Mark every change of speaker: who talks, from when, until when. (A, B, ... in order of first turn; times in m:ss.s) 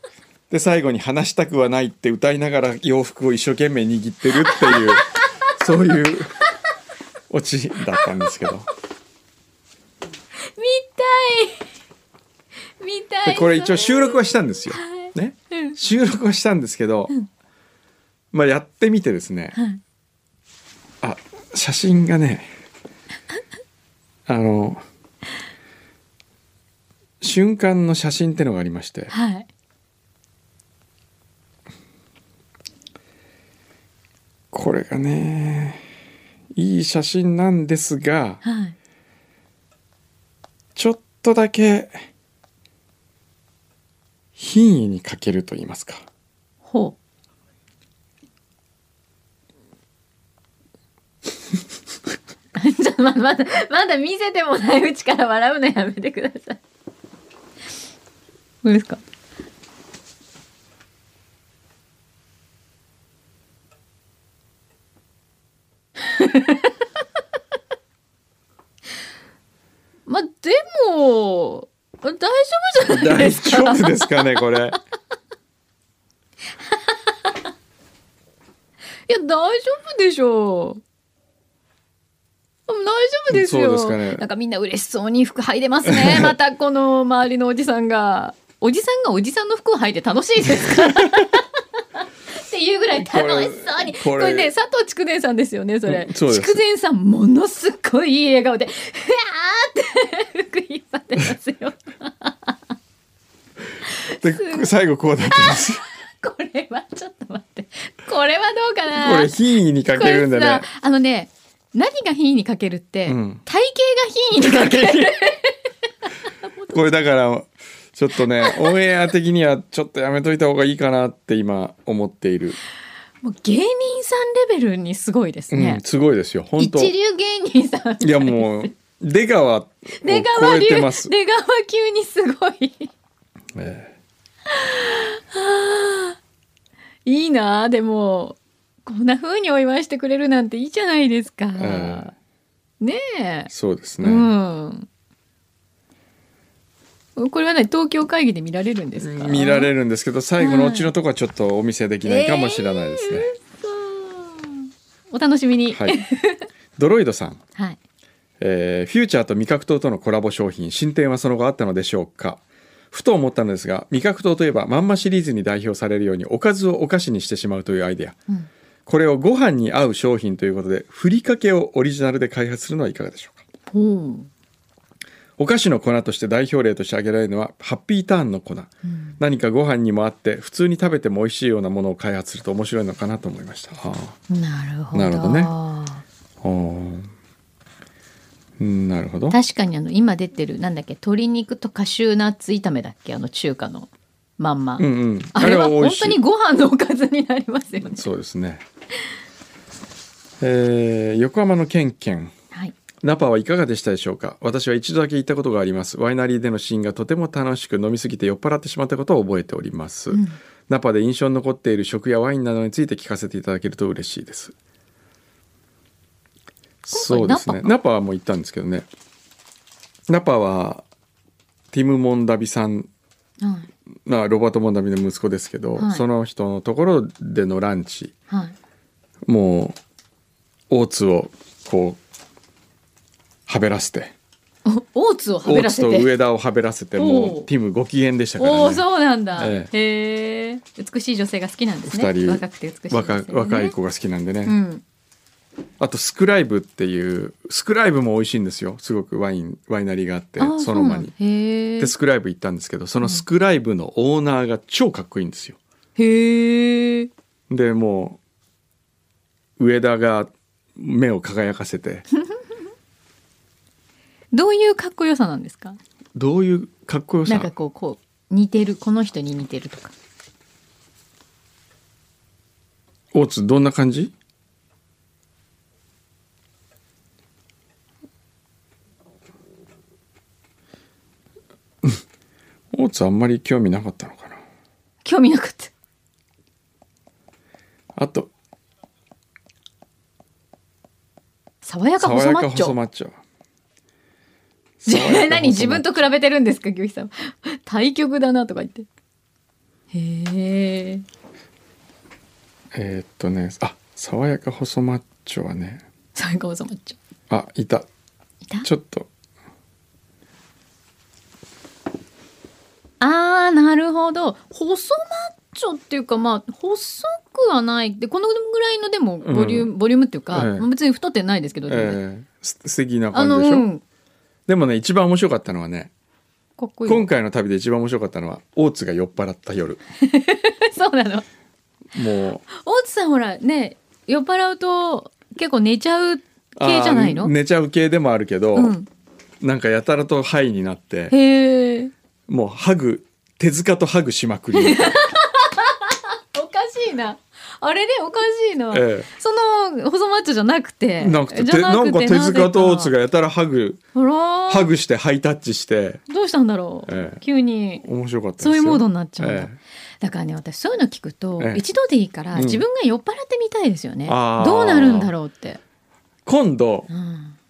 0:00.5-0:06.4 A
0:04.4-0:05.5 B
0:07.3-0:08.7 A
0:10.4-0:11.7 B
0:12.8-0:15.8 B
0:13.2-0:17.1 A
0:18.3-0:19.6 A
0:19.6-0:19.8 B
0:21.0-0:22.5 A
0:24.3-0:24.8 A
0:27.2-0:29.1 A
0:29.1-0:29.5 B
0:34.5-0:35.9 A
0:36.6-0:38.4 A
0:38.4-0:38.8 B
0:40.8-0:42.0 A
0:44.4-0:46.0 A
0:46.6-0:47.0 B
0:52.6-0:56.6 B
0:58.6-0:59.0 B
1:06.0-1:06.7 B
1:10.1-1:14.3 B
1:12.8-1:14.8 A
1:16.7-1:17.3 B
1:19.1-1:20.8 B
1:22.7-1:31.4 B
1:23.3-1:24.2 A
1:25.8-1:26.3 A
1:32.3-1:42.6 B
1:33.0-1:34.5 A
1:35.9-1:36.6 A
1:43.9-1:44.7 B
1:44.2-1:45.8 A
1:45.2-1:49.3 B
1:49.0-1:50.7 A
1:49.9-1:55.6 B
1:53.1-1:53.4 A
1:54.4-1:55.1 A
1:56.3-1:56.8 B
1:56.7-2:02.6 A
1:58.4-1:58.8 B
2:03.2-2:05.8 B
2:05.5-2:06.9 A
2:06.6-2:08.7 B
2:08.0-2:11.1 A
2:10.0-2:12.9 B
2:13.6-2:14.0 A
2:14.5-2:16.2 B
2:17.1-2:22.1 B
2:21.6-2:22.1 A
2:22.8-2:24.9 B
2:23.5-2:24.3 A
2:27.2-2:29.7 B
2:29.0-2:33.3 A
2:30.4-2:30.9 B
2:32.0-2:36.5 B
2:35.7-2:36.0 A
2:36.8-2:37.4 A
2:38.4-2:48.2 A
2:48.9-2:53.4 A
2:53.7-2:54.3 B
2:55.4-3:04.2 A
2:58.8-2:59.2 B
3:04.3-3:06.0 B
3:04.9-3:05.5 A
3:06.4-3:07.1 A
3:08.6-3:09.4 A
3:09.3-3:18.0 B
3:14.8-3:16.2 A
3:17.9-3:18.6 A
3:20.4-3:22.3 A
3:23.0-3:34.6 A
3:30.1-3:30.4 B
3:36.8-3:38.9 A
3:36.9-3:37.7 B
3:40.1-3:40.8 A
3:41.7-3:42.9 A
3:43.4-3:43.7 B
3:44.1-3:48.1 A
3:45.8-3:46.0 B
3:48.3-3:48.6 B
3:49.3-3:49.8 A
3:50.7-3:52.0 A
3:53.5-3:54.1 A
3:54.7-3:56.1 B
3:55.4-3:58.8 A
3:57.0-3:57.5 B
3:58.4-4:03.7 B
3:59.4-3:59.7 A
4:01.9-4:04.6 A
4:04.5-4:04.8 B
4:05.8-4:11.1 A
4:10.4-4:11.9 B
4:11.8-4:15.6 A
4:16.0-4:17.1 B
4:17.5-4:18.2 A
4:19.6-4:22.0 A
4:24.3-4:25.8 B
4:26.2-4:27.5 A
4:27.3-4:29.9 B
4:33.1-4:34.1 A
4:42.7-4:44.4 A
4:45.0-4:45.7 B
4:48.0-4:48.3 A
4:51.6-4:52.8 B
4:52.0-4:53.2 A
4:54.8-4:56.0 A
4:54.9-4:58.9 B
4:59.9-5:01.0 B
5:02.7-5:05.8 A
5:06.2-5:07.0 B
5:07.3-5:07.9 A
5:08.6-5:09.1 A
5:13.0-5:22.0 B
5:19.2-5:19.7 A
5:20.3-5:20.7 A
5:21.7-5:23.7 A
5:23.1-5:23.8 B
5:24.5-5:25.9 A
5:26.6-5:27.1 B
5:26.9-5:29.8 A
5:30.0-5:31.2 B
5:31.9-5:32.4 A
5:32.5-5:37.3 B
5:36.6-5:38.8 A
5:38.6-5:38.9 B
5:39.4-5:41.1 A
5:41.1-5:41.9 B
5:42.3-5:45.0 A
5:44.5-5:52.9 B
5:48.7-5:49.1 A
5:51.0-5:53.8 A
5:54.0-5:54.7 B
5:54.5-5:56.0 A
5:56.1-5:57.8 B
5:56.9-5:57.2 A
5:57.8-5:59.6 A
5:58.4-6:05.6 B
6:01.4-6:01.6 A
6:02.3-6:02.6 A
6:04.1-6:05.1 A
6:06.3-6:06.9 A
6:06.9-6:07.4 B